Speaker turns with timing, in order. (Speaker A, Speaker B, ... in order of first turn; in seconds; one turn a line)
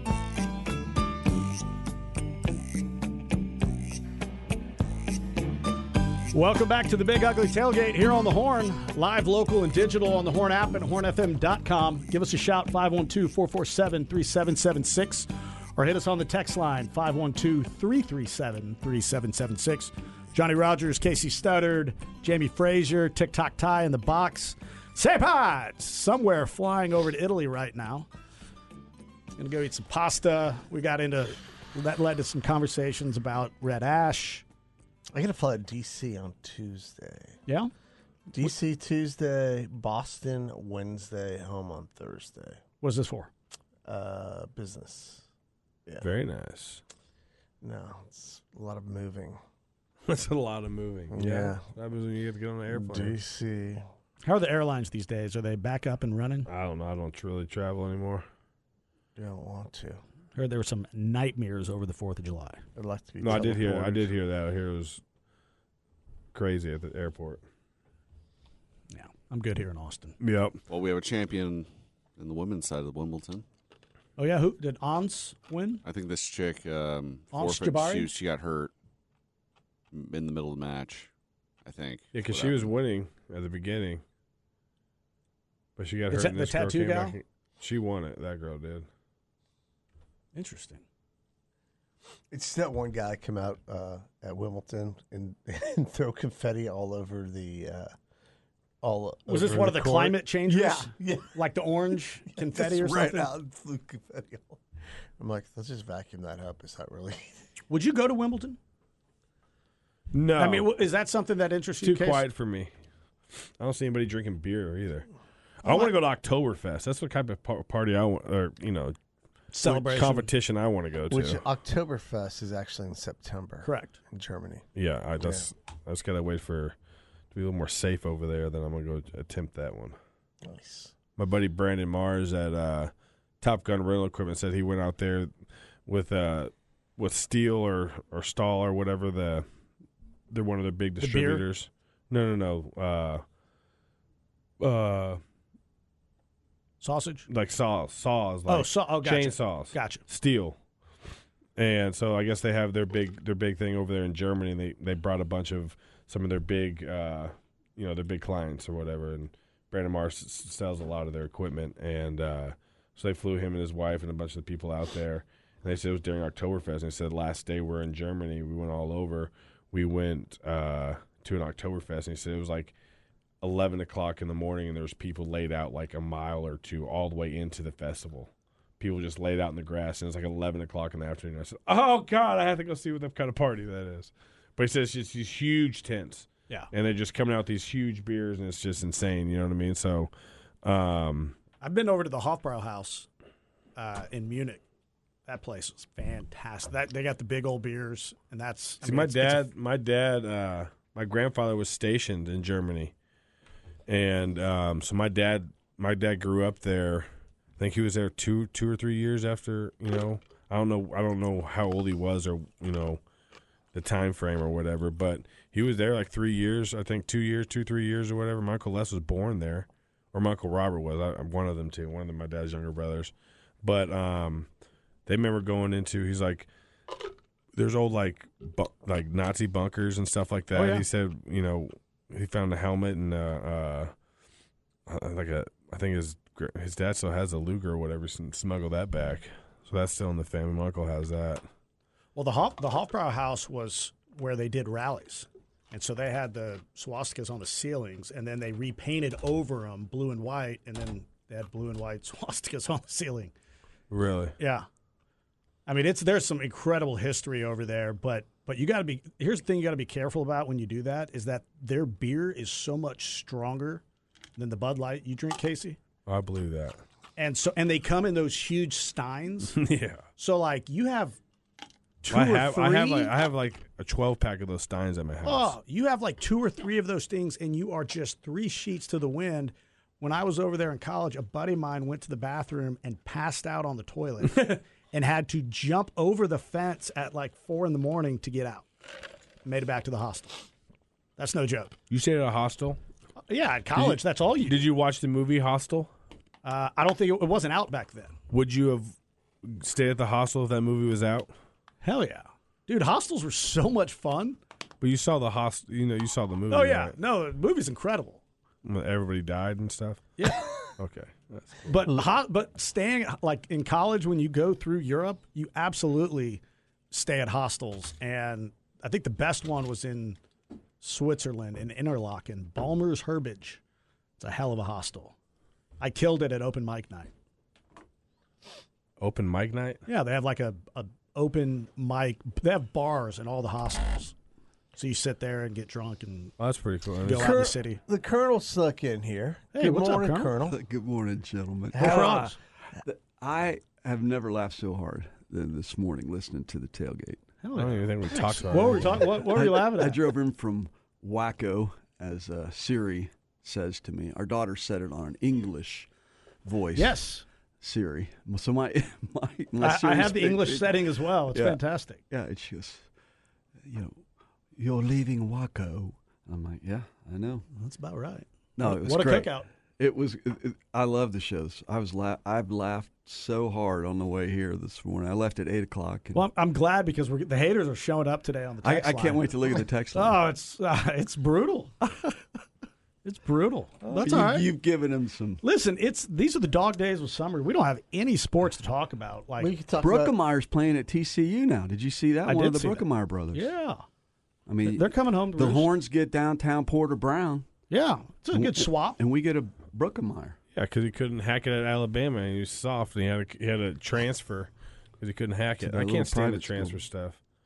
Speaker A: 6.3-28.1
Speaker A: 29.4-34.4
Speaker B: 35.1-37.4
Speaker A: 37.5-37.7
Speaker B: 38.3-42.6
Speaker A: 42.8-43.3
Speaker B: 43.8-45.2
Speaker C: 46.0-46.8
Speaker B: 47.6-49.4
Speaker C: 50.1-53.2
Speaker B: 51.1-51.6
Speaker B: 52.7-53.9
Speaker A: 54.2-56.5
Speaker C: 56.5-58.2
Speaker B: 59.1-60.0
Speaker A: 60.4-62.6
Speaker B: 62.8-64.1
Speaker C: 63.2-65.0
Speaker C: 66.3-67.4
Speaker A: 68.9-70.2
Speaker C: 70.2-70.6
Speaker D: 70.7-73.4
Speaker A: 74.2-75.8
Speaker D: 75.8-78.7
Speaker A: 77.3-78.1
Speaker D: 79.9-81.1
Speaker D: 81.6-82.7
Speaker C: 82.1-84.0
Speaker C: 85.8-88.9
Speaker A: 86.1-87.2
Speaker A: 90.3-90.8
Speaker B: 92.3-97.9
Speaker B: 98.8-101.4
Speaker A: 99.3-103.3
Speaker B: 102.3-104.6
Speaker B: 105.2-107.4
Speaker A: 107.7-108.6
Speaker C: 110.1-110.8
Speaker A: 110.4-112.2
Speaker C: 111.8-112.7
Speaker C: 113.6-115.1
Speaker C: 115.6-119.0
Speaker A: 119.5-120.3
Speaker C: 119.6-121.4
Speaker B: 121.1-124.6
Speaker A: 123.6-124.0
Speaker C: 124.8-126.7
Speaker B: 125.2-125.5
Speaker C: 127.3-129.9
Speaker B: 130.4-130.9
Speaker C: 131.2-135.3
Speaker C: 135.9-139.4
Speaker C: 140.3-143.2
Speaker A: 141.0-141.4
Speaker C: 144.6-145.2
Speaker A: 146.8-147.3
Speaker C: 147.3-150.6
Speaker A: 148.5-150.0
Speaker C: 151.6-172.7
Speaker C: 173.4-190.1
Speaker C: 190.6-191.4
Speaker A: 191.6-193.1
Speaker A: 193.8-194.6
Speaker A: 195.3-199.4
Speaker C: 198.8-202.9
Speaker C: 203.9-213.0
Speaker C: 213.7-224.5
Speaker C: 225.1-226.5
Speaker C: 227.5-233.9
Speaker A: 230.5-230.8
Speaker C: 234.9-241.4
Speaker A: 242.1-253.3
Speaker C: 253.9-254.3
Speaker A: 254.4-254.7
Speaker A: 255.7-263.8
Speaker A: 264.4-265.8
Speaker C: 266.1-266.8
Speaker A: 267.2-269.6
Speaker C: 269.5-270.0
Speaker A: 270.2-271.2
Speaker A: 272.0-273.1
Speaker C: 272.1-275.5
Speaker A: 275.2-288.7
Speaker A: 289.4-290.5
Speaker A: 291.2-291.7
Speaker C: 291.9-292.8
Speaker A: 293.3-294.6
Speaker C: 293.7-295.9
Speaker A: 296.4-298.1
Speaker C: 298.3-301.3
Speaker A: 301.8-304.4
Speaker C: 304.8-306.9
Speaker A: 306.5-308.2
Speaker C: 308.6-310.1
Speaker A: 310.2-310.7
Speaker C: 310.8-311.8
Speaker A: 311.7-320.2
Speaker A: 320.8-323.6
Speaker A: 324.2-325.1
Speaker A: 325.8-327.1
Speaker C: 329.0-329.8
Speaker A: 329.9-334.1
Speaker A: 334.8-336.3
Speaker C: 336.4-337.3
Speaker A: 337.0-337.8
Speaker B: 337.1-340.6
Speaker A: 339.5-340.3
Speaker E: 340.4-347.2
Speaker B: 341.7-342.3
Speaker A: 341.8-342.4
Speaker A: 347.4-350.0
Speaker C: 347.5-349.1
Speaker E: 349.2-355.9
Speaker E: 356.4-357.0
Speaker A: 356.7-357.2
Speaker E: 357.6-362.9
Speaker A: 359.6-362.0
Speaker E: 363.6-364.0
Speaker E: 364.6-367.4
Speaker A: 367.5-369.5
Speaker E: 368.6-376.2
Speaker A: 376.1-381.9
Speaker E: 378.6-380.2
Speaker A: 383.0-384.5
Speaker E: 383.8-385.4
Speaker A: 385.4-389.5
Speaker B: 389.4-390.2
Speaker E: 389.8-393.5
Speaker A: 392.2-393.8
Speaker E: 394.5-397.5
Speaker A: 394.6-395.7
Speaker A: 397.7-399.0
Speaker E: 398.3-400.4
Speaker C: 400.5-407.2
Speaker E: 405.6-406.8